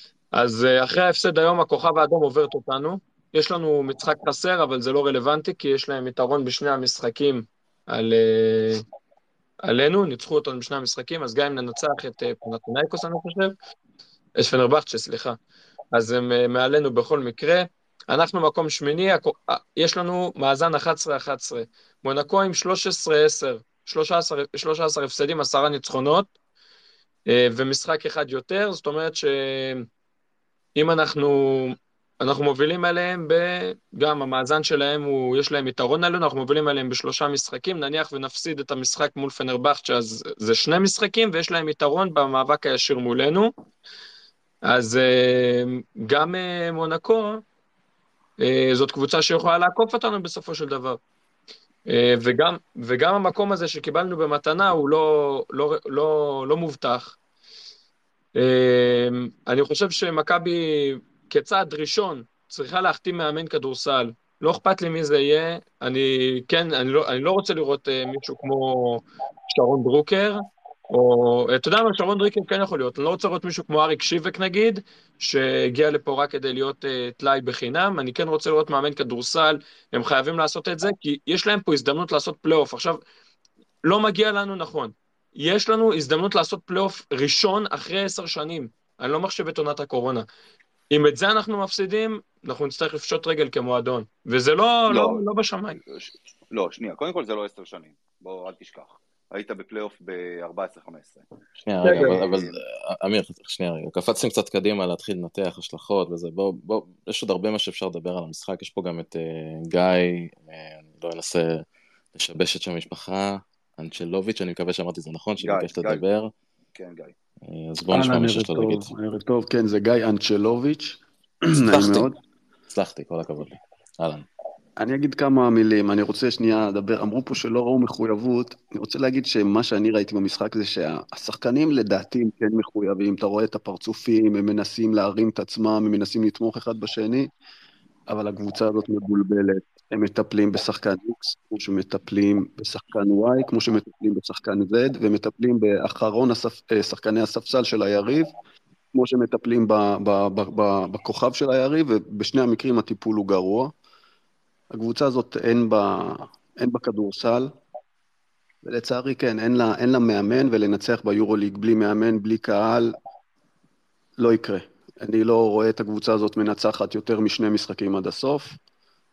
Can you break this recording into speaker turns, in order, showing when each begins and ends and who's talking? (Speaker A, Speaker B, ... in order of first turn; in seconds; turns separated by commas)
Speaker A: 0.3-8.8, Speaker A: 9.6-13.6, Speaker A: 14.4-15.4, Speaker A: 15.9-26.3, Speaker A: 27.3-29.9, Speaker A: 30.8-43.5, Speaker A: 44.7-47.4, Speaker A: 48.4-51.0, Speaker A: 51.9-57.2, Speaker A: 58.4-83.0, Speaker A: 83.8-90.2, Speaker A: 90.9-95.8, Speaker B: 94.9-95.2, Speaker B: 95.9-101.2, Speaker C: 101.6-116.3, Speaker A: 101.8-102.2, Speaker B: 101.9-102.6, Speaker B: 115.4-116.0, Speaker B: 116.8-117.1, Speaker C: 117.4-118.9, Speaker D: 117.9-122.2, Speaker C: 121.7-122.1, Speaker C: 122.7-124.2, Speaker D: 124.8-137.3, Speaker D: 138.1-148.3, Speaker D: 148.9-153.7, Speaker D: 154.7-157.6, Speaker D: 158.6-163.0, Speaker D: 164.2-168.6